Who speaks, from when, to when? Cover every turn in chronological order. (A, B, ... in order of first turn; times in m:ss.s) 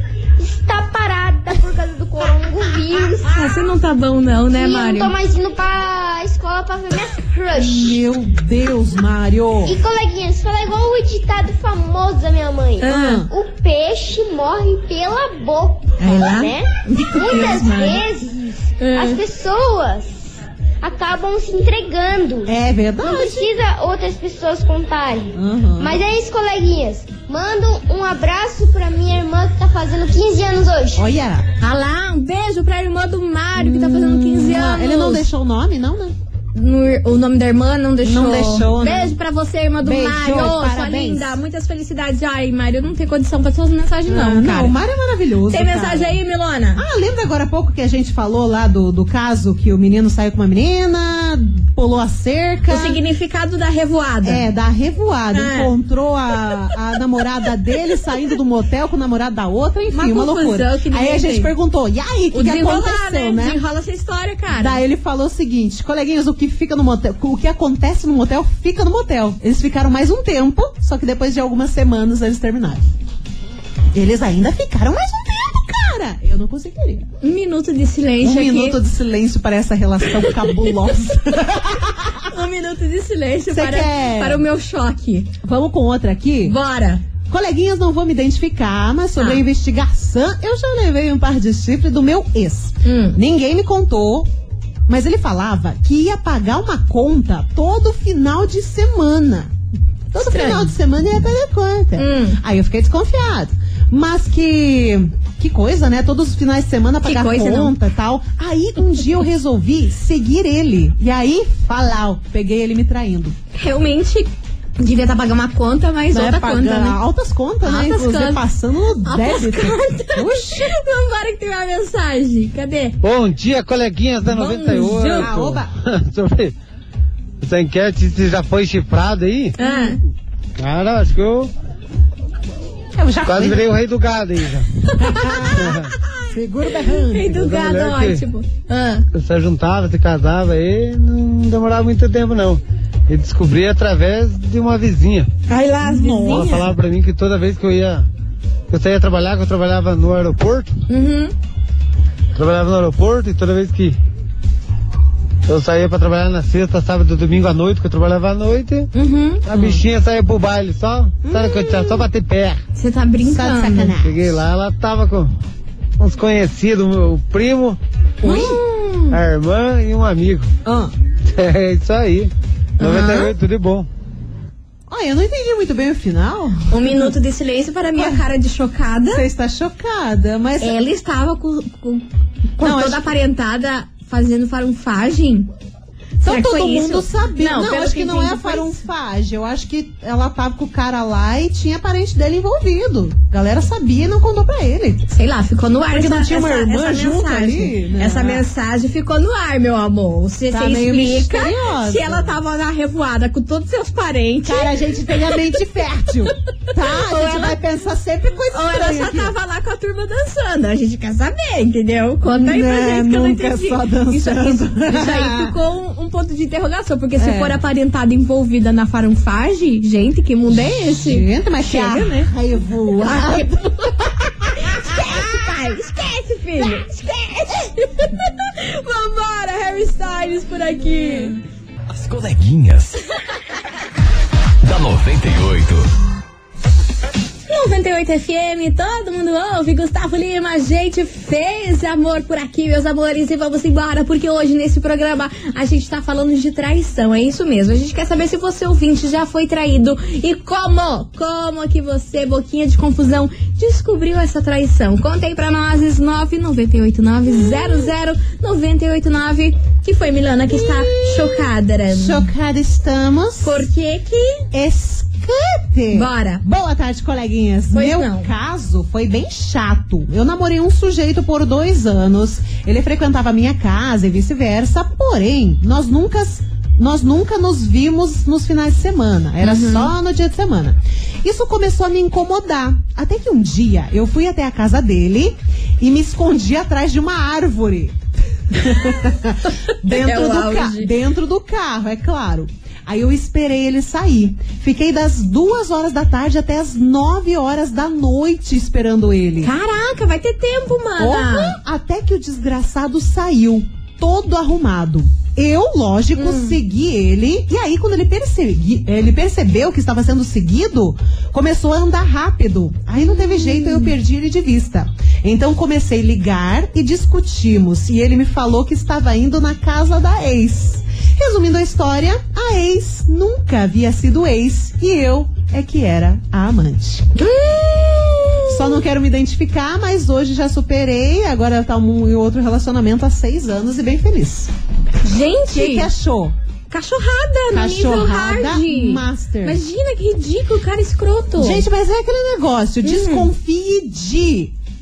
0:00.4-0:03.5 A
0:03.3-0:05.1 B
0:04.5-0:08.0 A
0:07.6-0:09.8 C
0:09.6-0:31.1 A
0:12.8-0:13.2 B
0:12.9-0:13.3 C
0:16.0-0:18.0 B
0:18.8-0:19.2 B
0:22.5-0:23.5 C
0:25.4-0:26.0 C
0:31.0-0:31.5 C
0:31.6-0:35.3 B
0:33.6-0:36.2 C
0:36.5-0:44.8 B
0:38.0-0:39.2 C
0:39.8-0:41.4 C
0:44.1-0:46.2 C
0:45.5-0:46.8 B
0:46.8-0:53.0 C
0:52.7-0:54.5 B
0:54.2-1:03.6 C
0:55.3-0:55.7 B
0:59.9-1:01.5 B
1:02.3-1:04.8 B
1:04.6-1:12.9 C
1:13.9-1:17.1 C
1:17.2-1:18.8 B
1:18.2-1:22.3 C
1:20.1-1:20.7 B
1:22.3-1:25.3 B
1:23.5-1:24.4 C
1:25.4-1:26.6 C
1:26.4-1:27.0 B
1:27.3-1:34.3 C
1:29.2-1:29.4 B
1:32.8-1:33.2 B
1:34.9-1:39.5 C
1:40.1-1:53.4 C
1:40.2-1:40.7 B
1:42.0-1:42.4 B
1:47.0-1:47.8 B
1:53.6-1:57.0 B
1:56.1-2:00.8 C
1:57.6-1:58.4 B
1:59.0-2:03.0 B
2:03.0-2:06.6 D
2:04.3-2:05.3 B
2:05.2-2:05.7 C
2:07.4-2:09.6 D
2:09.6-2:10.0 B
2:09.6-2:09.9 C
2:10.6-2:11.5 D
2:13.0-2:13.6 C
2:13.2-2:14.7 D
2:14.8-2:16.3 B
2:15.0-2:17.3 C
2:15.5-2:15.9 D
2:16.8-2:19.1 B
2:17.2-2:18.2 D
2:19.1-2:25.3 D
2:25.5-2:26.6 B
2:25.8-2:26.6 C
2:26.3-2:28.1 D
2:28.7-2:30.7 D
2:30.9-2:31.3 B
2:32.4-2:34.0 D
2:35.5-2:38.9 D
2:38.9-2:39.4 B
2:39.4-2:42.6 D
2:39.5-2:39.8 C
2:41.3-2:42.0 B
2:42.8-2:43.9 B
2:43.2-2:44.4 C
2:44.0-2:45.3 D
2:46.0-2:47.8 D
2:48.2-2:48.6 C
2:48.2-2:49.2 B
2:49.1-2:50.5 D
2:50.6-2:50.9 C
2:51.2-2:53.9 D
2:52.8-2:53.3 B
2:54.9-2:57.1 C
2:56.7-2:59.2 B
2:58.0-2:58.2 C
2:59.1-3:00.8 C
3:00.6-3:02.0 B
3:02.6-3:05.5 B
3:02.6-3:03.0 C
3:06.2-3:15.1 C
3:06.2-3:08.8 B
3:15.1-3:25.6 B
3:15.9-3:18.4 C
3:20.5-3:22.3 C
3:24.4-3:29.3 C
3:26.8-3:27.6 B
3:28.5-3:42.3 B
3:32.3-3:35.5 C
3:37.2-3:37.6 C
3:41.0-3:45.4 C
3:43.0-3:43.9 B
3:44.5-3:51.4 B
3:51.9-3:53.0 E
3:54.6-3:55.9 E
3:57.5-4:22.3 B
4:17.4-4:17.9 C
4:20.5-4:23.6 C
4:23.4-4:24.5 B
4:24.5-4:48.0 C
4:25.9-4:26.4 B
4:27.7-4:28.3 B
4:39.4-4:39.9 B
4:48.5-4:59.5 C
4:49.9-4:50.9 B
4:59.4-5:01.6 B
5:01.0-5:27.1 C
5:06.2-5:06.6 B
5:13.0-5:13.9 B
5:27.2-5:28.8 B
5:28.5-5:34.5 C
5:35.0-5:35.9 B
5:35.5-5:36.3 C
5:36.7-5:41.6 B
5:37.5-5:39.6 C
5:41.4-5:44.5 C
5:42.8-5:43.3 B